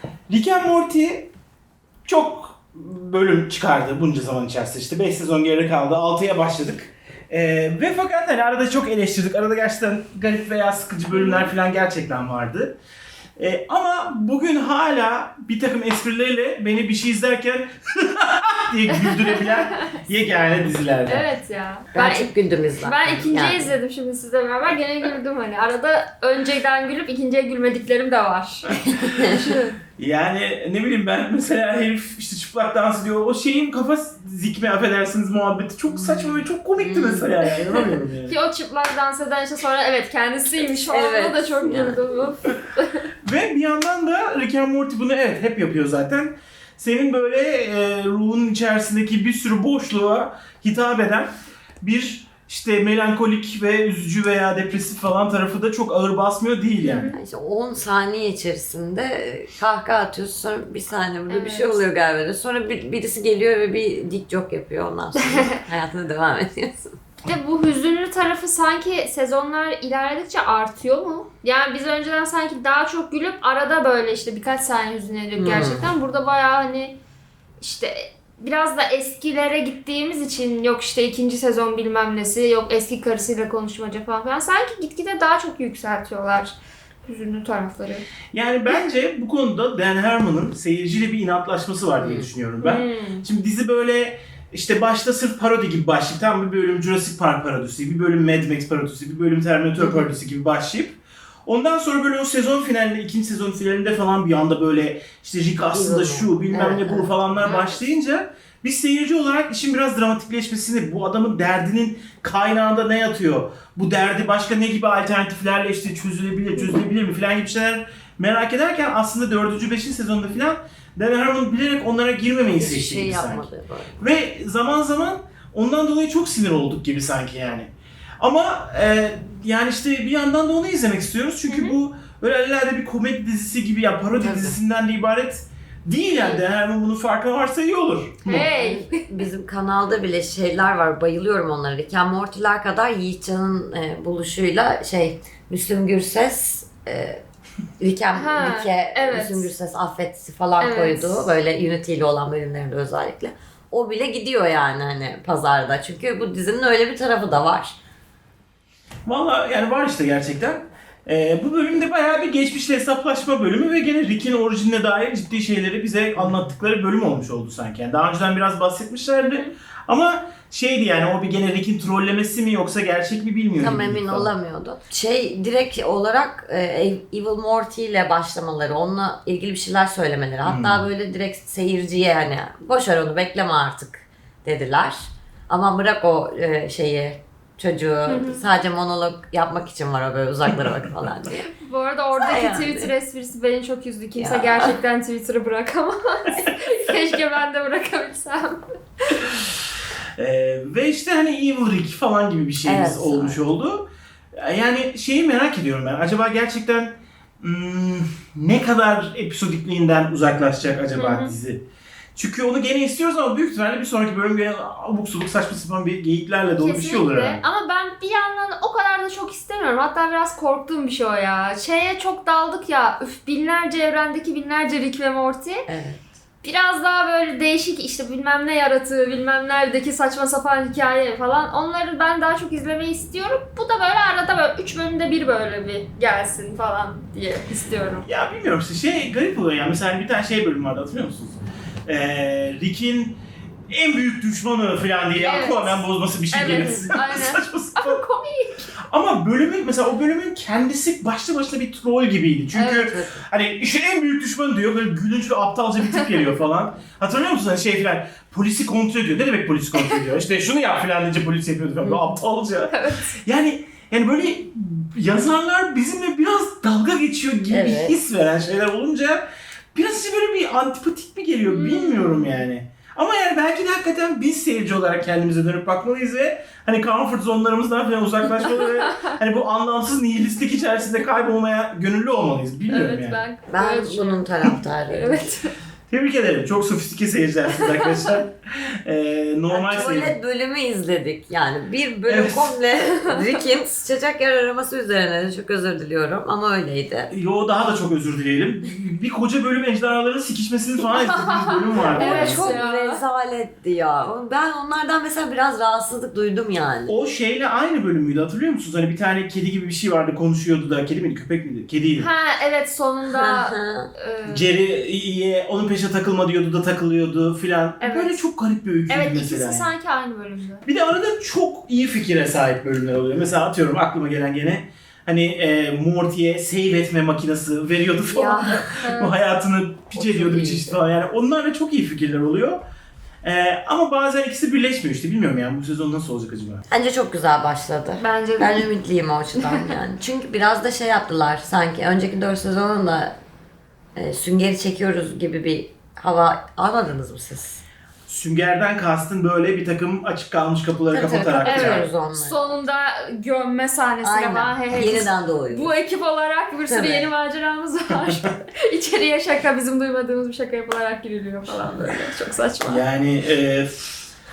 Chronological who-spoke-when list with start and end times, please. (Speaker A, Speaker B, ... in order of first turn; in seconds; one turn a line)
Speaker A: 0.3-1.3
Speaker A: 2.0-12.8
Speaker B: 11.1-11.5
Speaker A: 13.4-21.3
Speaker B: 18.9-19.9
Speaker B: 21.1-22.3
Speaker C: 21.9-23.8
Speaker B: 22.8-29.8
Speaker A: 28.8-29.4
Speaker C: 29.0-29.3
Speaker A: 30.0-38.4
Speaker C: 36.0-37.3
Speaker B: 38.3-43.1
Speaker C: 40.7-42.1
Speaker A: 43.2-57.1
Speaker B: 56.8-57.2
Speaker C: 57.0-67.0
Speaker B: 61.3-61.8
Speaker B: 65.2-65.5
Speaker B: 67.2-77.0
Speaker C: 75.4-75.9
Speaker B: 77.6-88.0
Speaker A: 88.3-138.5
Speaker C: 92.0-92.3
Speaker B: 92.6-93.2
Speaker C: 99.8-100.1
Speaker C: 105.7-107.1
Speaker B: 107.4-107.8
Speaker C: 122.6-124.0
Speaker B: 131.5-131.8
Speaker B: 134.2-134.5
Speaker B: 138.3-139.0
Speaker C: 138.3-147.2
Speaker C: 147.8-157.8
Speaker B: 148.2-149.5
Speaker B: 150.6-151.3
Speaker A: 159.1-174.3
Speaker C: 166.2-166.5
Speaker C: 173.6-191.5
Speaker A: 180.4-180.8
Speaker B: 188.1-188.5
Speaker B: 191.4-199.2
Speaker C: 192.1-192.9
Speaker C: 194.2-194.8
Speaker A: 200.2-211.6
Speaker C: 202.7-203.4
Speaker B: 210.9-211.3
Speaker A: 212.2-217.4
Speaker B: 216.6-225.7
Speaker C: 225.7-226.0
Speaker B: 226.4-238.1
Speaker A: 238.1-243.2
Speaker A: 243.7-248.0
Speaker B: 245.2-248.7
Speaker A: 248.9-283.2
Speaker B: 252.5-252.9
Speaker C: 252.9-253.1
Speaker C: 261.8-262.2
Speaker B: 262.7-263.2
Speaker C: 267.5-268.0
Speaker B: 271.5-272.4
Speaker B: 278.4-279.1
Speaker B: 282.7-284.4
Speaker C: 283.5-285.4
Speaker B: 284.9-285.5
Speaker A: 285.9-290.2
Speaker B: 287.5-288.2
Speaker C: 289.5-297.1
Speaker A: 292.1-292.6
Speaker B: 292.8-293.4
Speaker A: 297.1-302.6
Speaker B: 300.9-303.0
Speaker C: 301.9-306.9
Speaker A: 306.9-312.1
Speaker B: 312.0-314.6
Speaker C: 313.1-313.9
Speaker A: 314.3-319.7
Speaker B: 317.8-318.2
Speaker B: 318.9-320.6
Speaker A: 320.6-332.6
Speaker C: 328.1-328.8
Speaker B: 328.8-329.1
Speaker C: 329.9-330.8
Speaker A: 333.2-336.6
Speaker C: 336.7-343.2
Speaker B: 338.0-338.7
Speaker B: 339.4-339.8
Speaker C: 344.0-347.6
Speaker A: 348.1-351.9
Speaker C: 350.9-352.5
Speaker B: 351.4-362.9
Speaker C: 354.0-355.7
Speaker C: 356.7-357.1
Speaker A: 362.6-364.1